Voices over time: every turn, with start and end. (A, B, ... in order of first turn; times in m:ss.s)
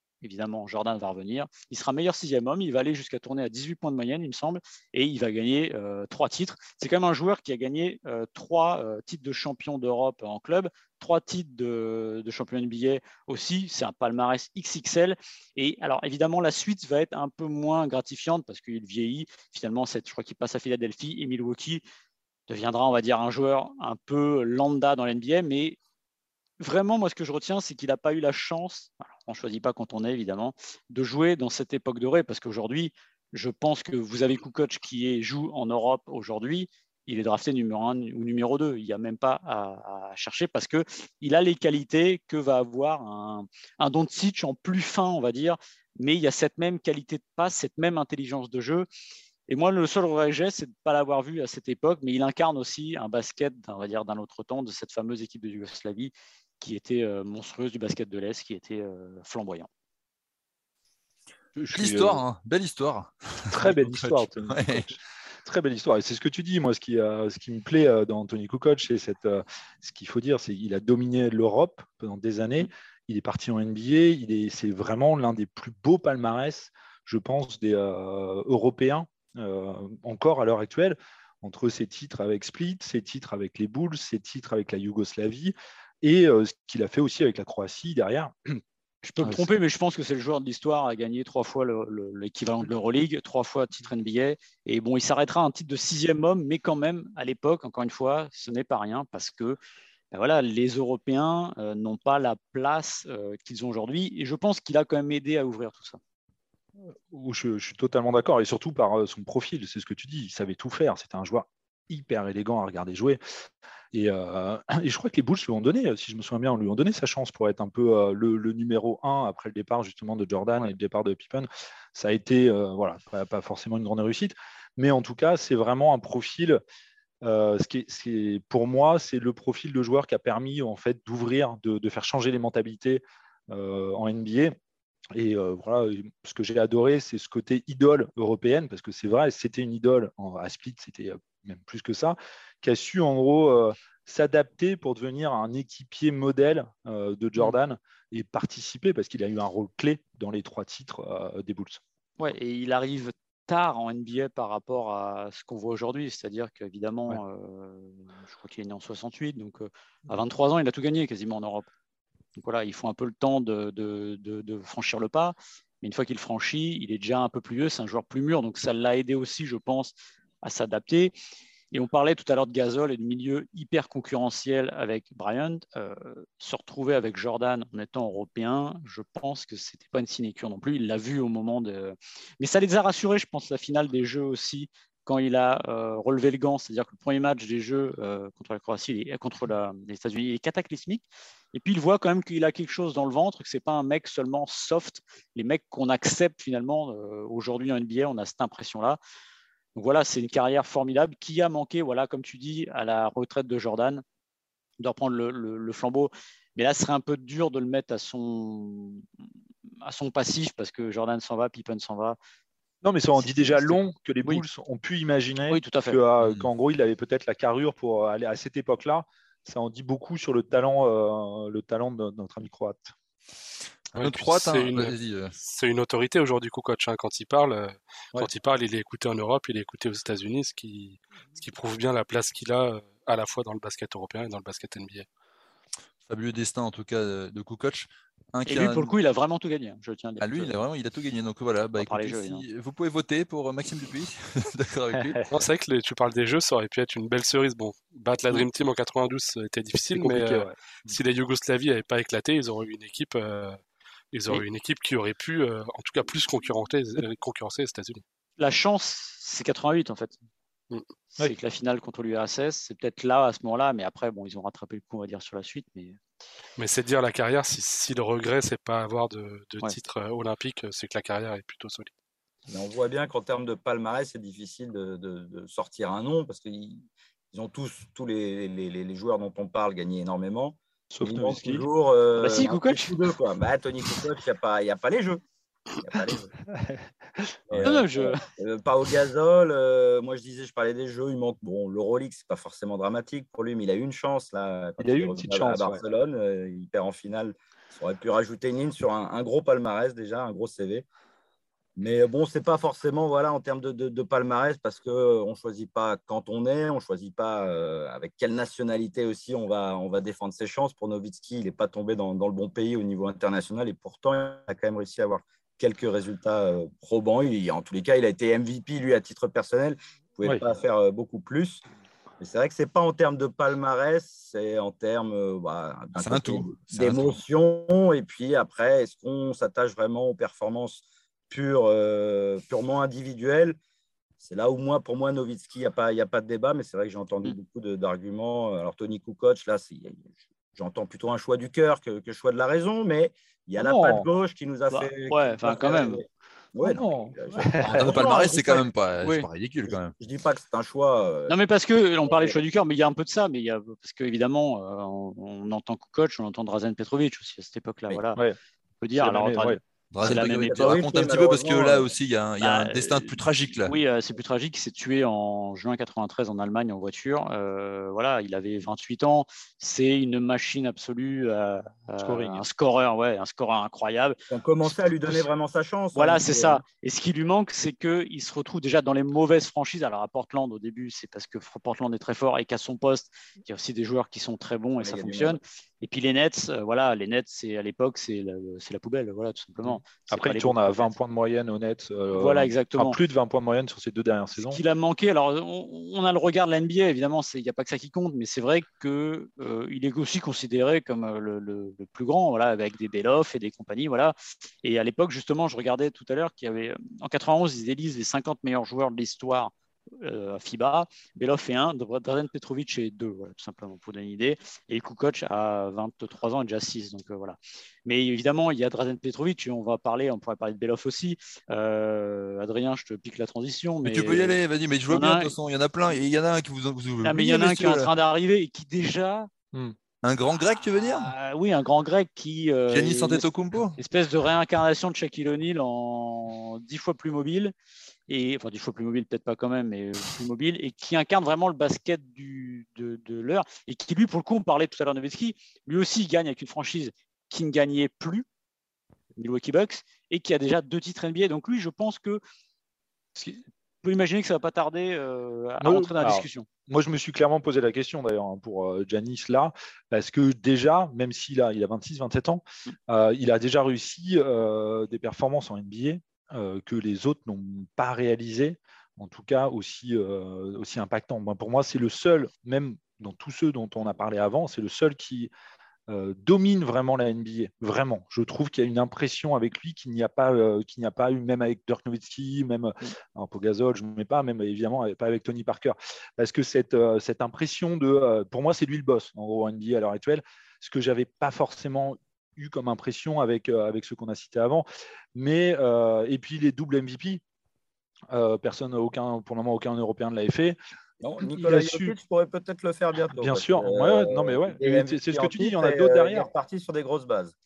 0:00.2-0:21.8 A
0:22.5-0:25.8 A
0:26.6-0:48.9 A
0:49.5-0:59.7 A
1:01.6-1:02.2 B
1:01.7-1:04.9 C
1:03.5-1:28.6 B
1:29.0-1:39.6 A
1:29.2-1:29.5 B
1:40.1-1:46.0 A
1:46.9-1:53.2 B
1:53.9-2:06.6 B
2:07.2-2:14.6 B
2:15.1-2:31.8 B
2:32.2-2:41.7 A
2:42.4-2:51.1 A
2:51.7-3:19.0 A
3:19.8-3:24.0 A
3:24.8-3:29.0 A
3:29.8-3:32.2 A
3:32.8-3:42.9 B
3:33.2-3:34.4 A
3:35.5-3:36.0 A
3:36.2-3:36.5 C
3:44.0-3:45.3 C
3:44.0-3:55.1 D
3:56.1-3:59.0 C
3:58.5-4:00.5 A
4:00.2-4:05.2 C
4:01.8-4:02.4 A
4:04.9-4:05.3 B
4:05.3-4:13.6 D
4:09.9-4:11.0 B
4:14.1-4:18.0 D
4:18.4-4:20.2 A
4:21.2-4:26.0 A
4:26.6-4:31.9 D
4:32.5-4:45.2 E
4:40.9-4:41.7 B
4:42.2-4:42.9 A
4:45.8-4:46.3 E
4:46.5-4:47.4 B
4:47.5-5:00.9 E
4:47.6-4:48.2 A
4:54.8-4:55.8 B
5:01.8-5:21.6 E
5:22.2-5:33.6 E
5:26.0-5:27.2 C
5:34.2-5:48.7 E
5:43.6-5:44.1 B
5:44.7-5:46.0 A
5:46.6-5:48.4 B
5:47.8-5:50.0 C
5:49.0-5:49.3 A
5:50.0-5:51.4 E
5:51.3-5:58.2 A
5:52.0-5:52.4 E
5:58.8-6:00.8 A
5:59.0-5:59.6 B
5:59.9-6:03.8 C
6:00.0-6:01.9 E
6:02.4-6:15.3 A
6:12.0-6:12.4 B
6:14.3-6:16.6 E
6:16.0-6:31.0 A
6:24.8-6:25.4 E
6:29.6-6:34.6 B
6:32.1-6:33.0 A
6:34.4-7:05.4 A
7:03.8-7:07.9 C
7:07.0-7:09.3 A
7:10.0-7:11.1 C
7:10.9-7:17.5 A
7:12.7-7:13.8 C
7:18.1-7:28.3 A
7:29.2-7:32.2 A
7:33.2-7:36.5 A
7:35.6-7:55.3 B
7:55.9-8:17.2 B
8:18.1-8:20.6 B
8:21.0-8:27.3 E
8:21.2-8:22.0 B
8:23.2-8:26.3 B